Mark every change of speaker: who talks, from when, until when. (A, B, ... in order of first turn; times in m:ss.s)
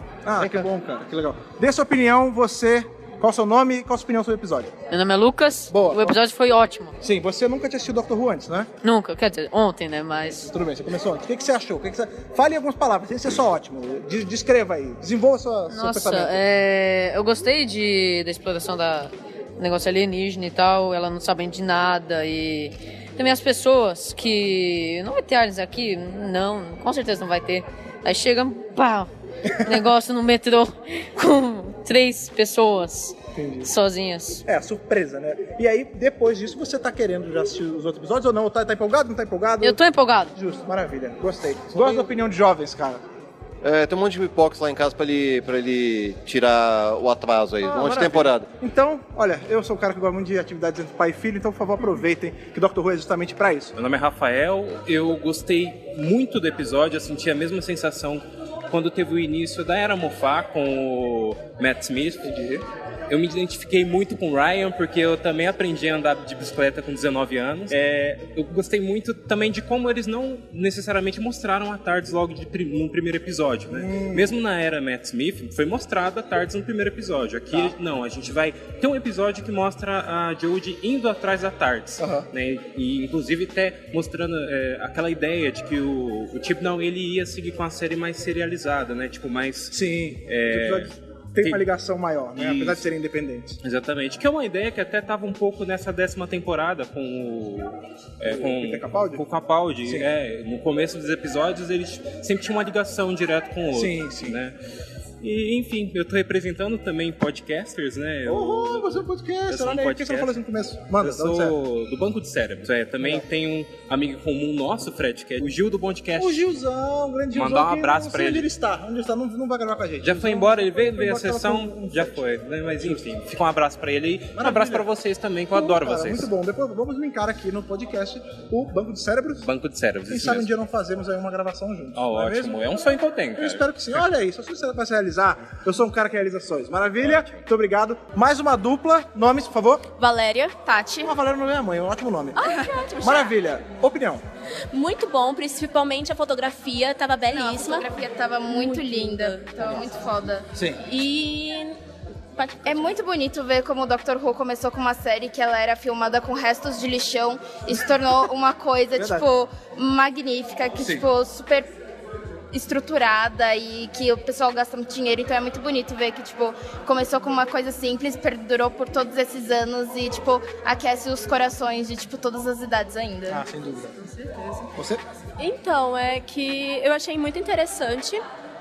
0:00.2-0:04.7 A
0:04.9-0:07.0 B
0:05.7-0:06.2 A
0:07.0-0:08.7 A
0:08.8-0:10.5 B
0:10.3-0:16.4 A
0:15.7-0:29.1 B
0:29.6-0:34.4 B
0:33.4-0:33.7 A
0:34.5-0:39.8 A
0:39.6-0:40.3 B
0:40.4-0:43.0 A
0:43.6-0:48.5 C
0:47.6-0:53.7 A
0:53.8-1:02.3 D
1:02.2-1:02.6 A
1:03.1-1:31.6 D
1:13.7-1:14.4 A
1:22.0-1:22.3 A
1:29.7-1:33.6 A
1:32.4-1:32.9 D
1:33.6-1:44.6 D
1:38.3-1:39.2 A
1:43.7-1:44.4 A
1:45.2-1:50.4 D
1:48.3-1:51.6 A
1:51.0-1:56.5 D
1:56.2-2:02.3 A
1:57.3-1:58.5 D
2:00.0-2:06.3 D
2:02.8-2:03.0 A
2:04.4-2:04.9 A
2:05.5-2:09.4 A
2:09.4-2:10.5 D
2:10.1-2:12.6 A
2:12.0-2:14.0 D
2:13.4-2:19.8 A
2:17.0-2:17.4 D
2:20.0-2:20.7 E
2:21.0-2:22.4 A
2:22.4-2:23.4 E
2:23.0-2:24.2 A
2:24.7-2:27.9 E
2:27.3-2:30.5 F
2:28.5-2:29.6 E
2:30.5-2:30.8 A
2:30.8-2:31.7 E
2:32.4-2:32.7 E
2:32.6-2:41.7 F
2:39.0-2:39.3 A
2:40.8-2:41.1 A
2:42.5-2:53.4 F
2:53.3-2:54.0 A
2:54.8-2:55.0 A
2:55.4-2:58.2 E